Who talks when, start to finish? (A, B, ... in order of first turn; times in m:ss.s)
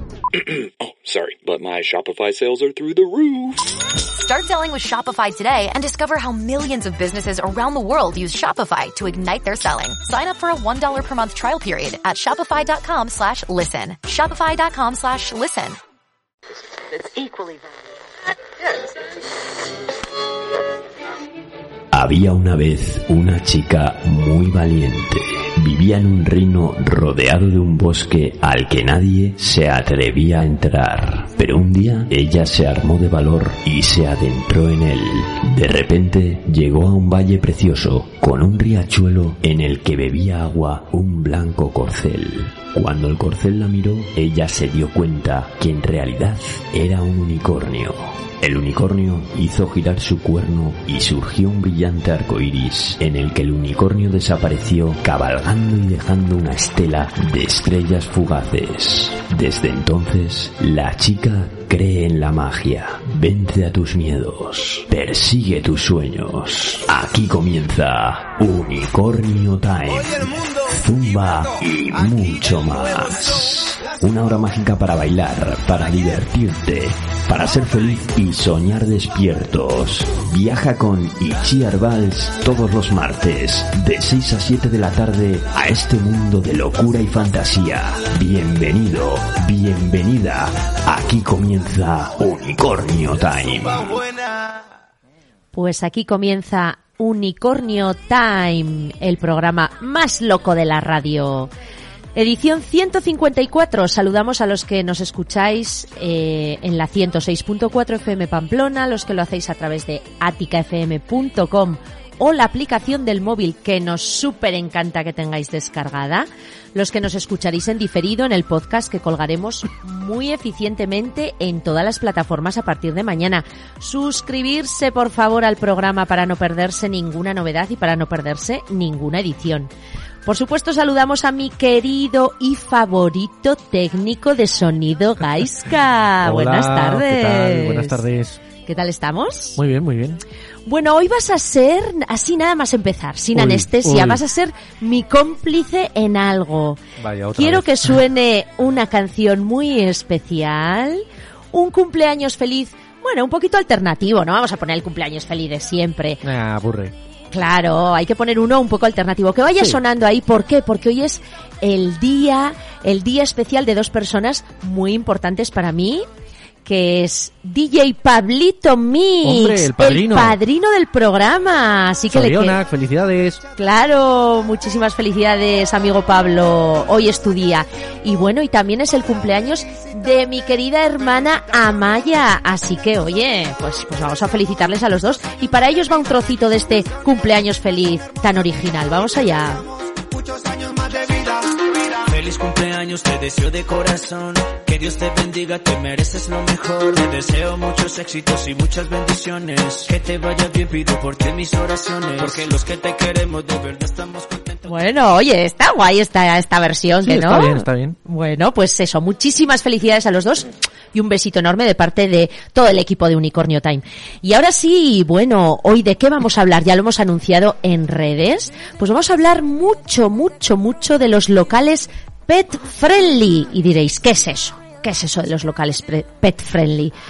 0:00.3-0:03.7 A
0:04.1-0:15.8 B
0:21.9-1:34.0 C
1:35.5-1:41.5 D
1:42.1-2:09.7 D
2:10.2-2:18.0 D
2:16.2-2:18.4 E
2:18.6-2:19.6 D
2:19.6-2:20.2 E
2:20.6-2:26.8 D
2:23.3-2:24.2 E
2:27.0-2:28.0 E
2:27.3-2:36.2 D
2:36.2-2:36.9 E
2:37.3-2:46.0 D
2:46.6-2:52.6 D
2:49.2-2:50.4 E
2:52.1-2:53.4 E
2:53.6-3:09.6 D
3:12.1-3:24.7 F
3:24.6-3:46.9 D
3:27.0-3:28.0 E